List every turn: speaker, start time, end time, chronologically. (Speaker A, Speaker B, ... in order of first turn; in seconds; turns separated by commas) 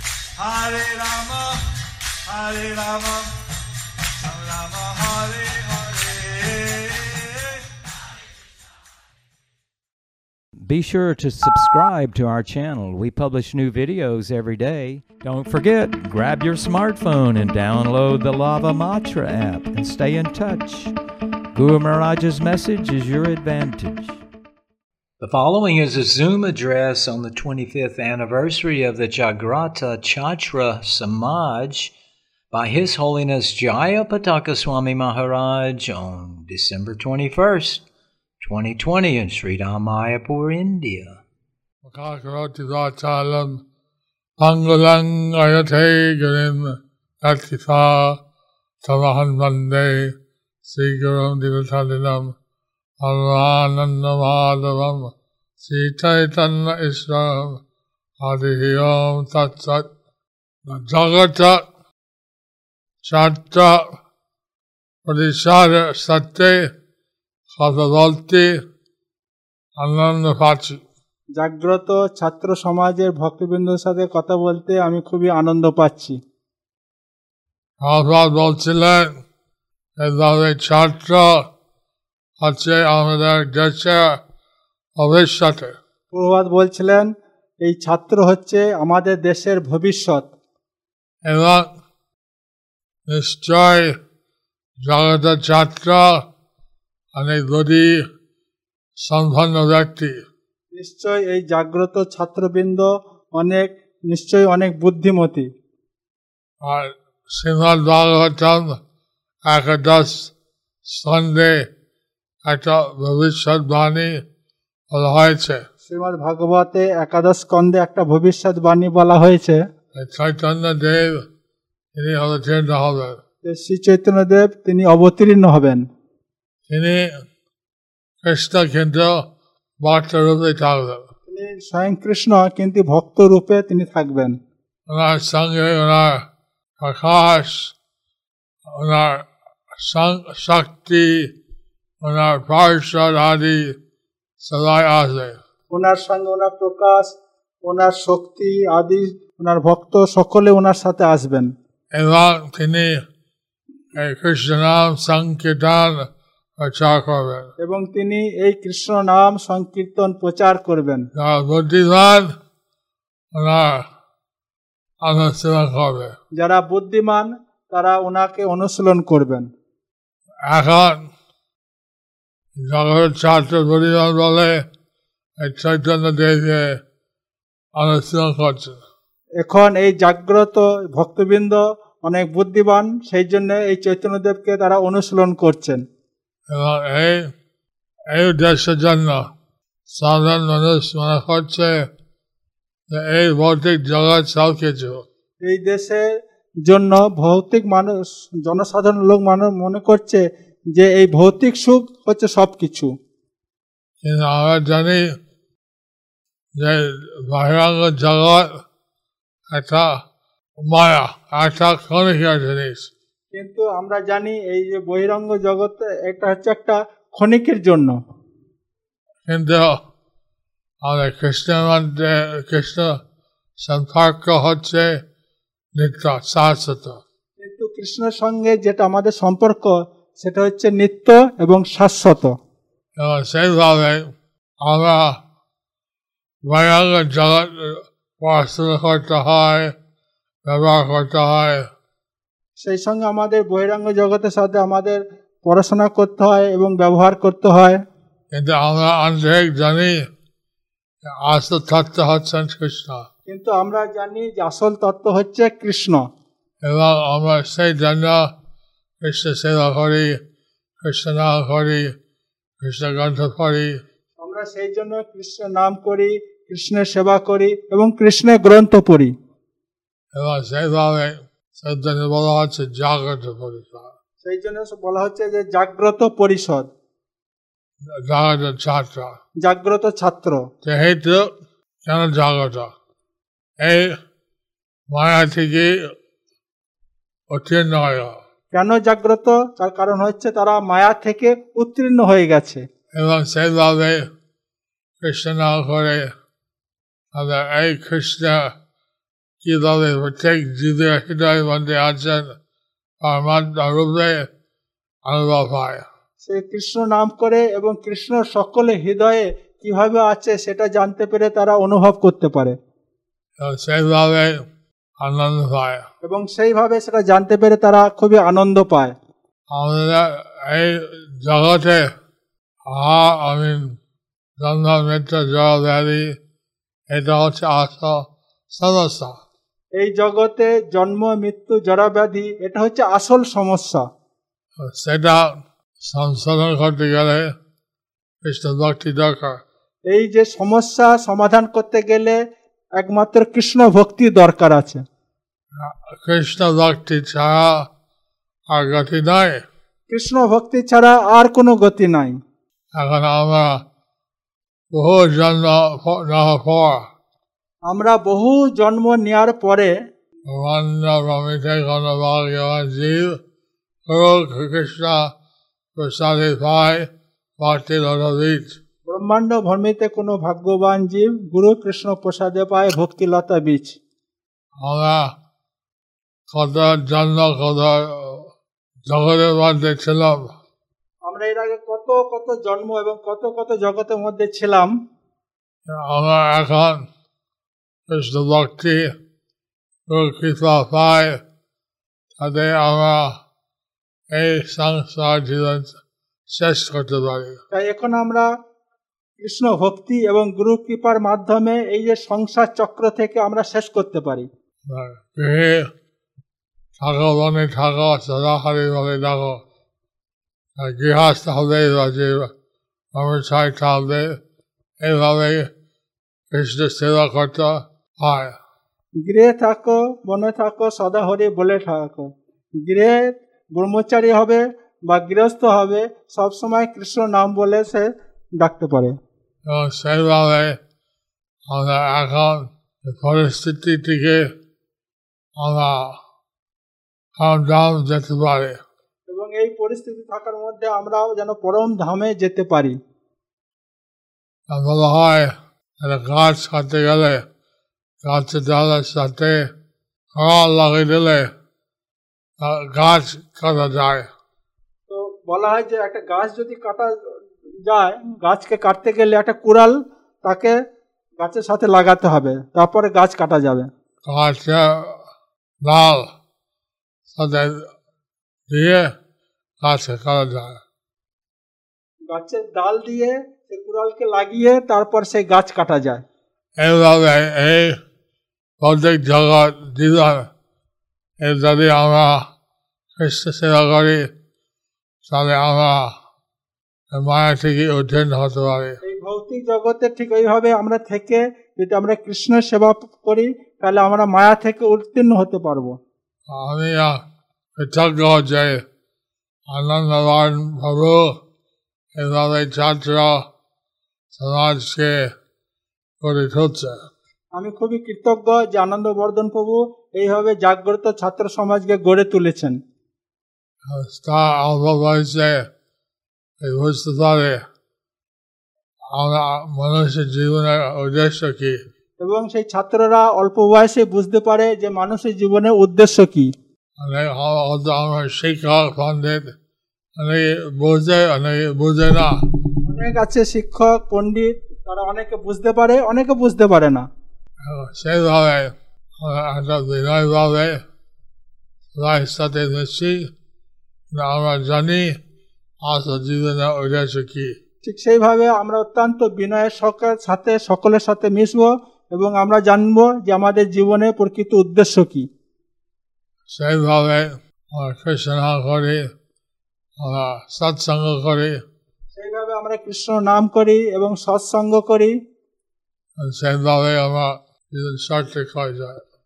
Speaker A: 0.4-1.7, Speaker A: 2.3-3.4, Speaker A: 4.2-7.6, Speaker B: 10.6-20.9, Speaker B: 21.5-24.2, Speaker C: 25.2-31.9, Speaker C: 32.5-37.8, Speaker C: 38.4-41.2, Speaker D: 41.8-43.6, Speaker D: 44.4-48.2, Speaker D: 48.8-52.3, Speaker D: 53.0-57.6, Speaker D: 58.2-59.9, Speaker D: 60.7-61.7, Speaker D: 63.0-63.9, Speaker D: 65.0-66.6, Speaker D: 67.5-68.6, Speaker D: 69.8-70.8, Speaker E: 71.4-76.2, Speaker D: 77.8-79.1, Speaker D: 80.0-81.4, Speaker D: 82.4-84.2, Speaker D: 85.0-85.8, Speaker E: 86.1-87.1, Speaker E: 87.6-90.3, Speaker D: 91.2-91.7, Speaker D: 93.1-93.9, Speaker D: 94.8-96.2, Speaker D: 97.1-97.9, Speaker D: 99.0-100.2, Speaker E: 100.8-105.5, Speaker D: 106.6-108.8, Speaker D: 109.5-110.3, Speaker D: 110.9-111.6, Speaker D: 112.4-114.2, Speaker D: 114.9-115.6, Speaker E: 115.9-119.6, Speaker D: 119.9-121.2, Speaker D: 121.9-123.2, Speaker E: 123.4-125.8, Speaker D: 126.7-127.1, Speaker D: 128.2-129.2, Speaker D: 129.8-131.0, Speaker E: 131.3-134.4, Speaker D: 134.9-136.2, Speaker D: 136.8-137.7, Speaker D: 138.7-141.3, Speaker D: 142.0-143.7, Speaker D: 144.4-145.4, Speaker E: 145.7-151.5, Speaker D: 151.9-153.0, Speaker D: 153.9-156.1, Speaker D: 156.6-157.5, Speaker E: 157.6-161.1, Speaker D: 161.2-162.3, Speaker D: 163.3-163.8, Speaker D: 165.0-166.2, Speaker E: 166.4-169.5, Speaker D: 170.5-171.1, Speaker D: 172.6-174.6, Speaker D: 175.4-176.8, Speaker D: 177.8-178.8, Speaker E: 179.4-185.8, Speaker D: 186.5-187.3, Speaker D: 188.1-189.2, Speaker D: 189.9-191.8, Speaker D: 192.9-195.0, Speaker E: 195.4-196.0, Speaker E: 196.7-202.9, Speaker D: 204.0-205.0, Speaker D: 206.6-208.5, Speaker D: 209.5-209.9, Speaker D: 210.6-212.9, Speaker E: 213.3-218.0, Speaker D: 219.3-219.8, Speaker D: 220.8-223.0, Speaker D: 223.6-224.9, Speaker D: 225.8-227.0, Speaker E: 227.4-232.3, Speaker D: 233.0-234.0, Speaker D: 234.6-235.2, Speaker D: 236.5-239.7, Speaker D: 240.4-241.7, Speaker E: 242.6-247.8, Speaker D: 248.3-250.0, Speaker D: 251.0-253.1, Speaker E: 253.3-256.0, Speaker D: 256.6-258.2, Speaker D: 259.0-260.2, Speaker D: 260.8-261.9, Speaker D: 262.6-263.8, Speaker E: 264.2-269.1, Speaker D: 270.1-273.9, Speaker E: 274.2-276.7, Speaker D: 277.9-279.1, Speaker E: 279.4-280.4, Speaker D: 280.6-281.3, Speaker D: 281.8-282.7, Speaker D: 283.6-284.0, Speaker D: 284.9-285.8, Speaker D: 287.3-288.2, Speaker E: 288.5-292.6, Speaker D: 292.9-294.1, Speaker D: 295.0-296.1, Speaker D: 297.1-298.5, Speaker D: 299.4-302.3, Speaker D: 303.0-304.3, Speaker D: 305.1-305.9, Speaker E: 306.2-312.6, Speaker D: 313.4-314.4, Speaker D: 315.0-315.9, Speaker E: 316.0-318.9, Speaker D: 319.5-321.9, Speaker D: 322.7-323.8, Speaker D: 324.4-326.1, Speaker D: 326.9-329.2, Speaker E: 329.8-333.9, Speaker D: 334.6-337.3, Speaker D: 338.2-339.4, Speaker E: 339.9-342.2, Speaker E: 342.8-344.8, Speaker D: 345.6-347.6, Speaker D: 348.5-349.4, Speaker E: 349.9-352.2, Speaker D: 352.8-353.6, Speaker D: 354.7-356.9, Speaker E: 357.7-359.7, Speaker D: 360.3-363.2, Speaker D: 363.9-365.1, Speaker D: 365.8-368.6, Speaker E: 368.9-373.8, Speaker D: 374.6-375.1, Speaker D: 376.3-378.3, Speaker D: 378.9-380.3, Speaker E: 381.1-384.7, Speaker D: 385.7-386.9, Speaker D: 387.9-388.9, Speaker D: 389.9-391.2, Speaker D: 392.2-393.2, Speaker D: 394.1-395.8, Speaker D: 396.3-397.4, Speaker E: 397.5-398.3, Speaker E: 399.2-404.3, Speaker D: 404.6-405.7, Speaker D: 406.8-409.4, Speaker D: 410.6-412.3, Speaker D: 412.9-414.2, Speaker D: 414.8-415.5, Speaker D: 416.3-418.4, Speaker E: 419.0-428.9, Speaker D: 429.4-430.6, Speaker D: 431.5-434.3, Speaker D: 435.4-436.0, Speaker D: 437.2-438.6, Speaker E: 439.1-442.8, Speaker D: 444.5-447.2, Speaker D: 448.0-449.4, Speaker D: 450.1-451.3, Speaker D: 452.4-454.1, Speaker E: 454.9-456.9, Speaker E: 457.6-460.6, Speaker E: 461.2-463.7, Speaker D: 464.1-465.0, Speaker D: 465.6-466.1, Speaker D: 467.1-467.7, Speaker D: 468.5-468.9, Speaker D: 469.6-470.6, Speaker E: 472.1-476.0, Speaker D: 476.6-477.8, Speaker D: 478.6-480.3, Speaker D: 481.2-482.2, Speaker D: 482.9-484.1, Speaker D: 485.1-485.9, Speaker D: 486.9-488.8, Speaker E: 488.8-495.8, Speaker D: 496.3-497.0, Speaker D: 497.6-498.6, Speaker D: 499.5-501.1, Speaker D: 501.9-503.2, Speaker D: 504.1-505.1, Speaker D: 506.0-506.9, Speaker E: 507.4-512.6, Speaker D: 513.6-515.5, Speaker D: 516.4-517.4, Speaker D: 518.9-521.6, Speaker E: 522.0-526.3, Speaker D: 526.8-529.3, Speaker D: 530.0-532.2, Speaker E: 532.6-536.9, Speaker D: 537.4-540.6, Speaker D: 541.8-543.1, Speaker D: 543.9-545.0, Speaker D: 545.6-547.3, Speaker E: 547.6-555.1, Speaker D: 556.3-558.8, Speaker D: 559.8-561.4, Speaker E: 562.0-564.9, Speaker D: 566.0-568.8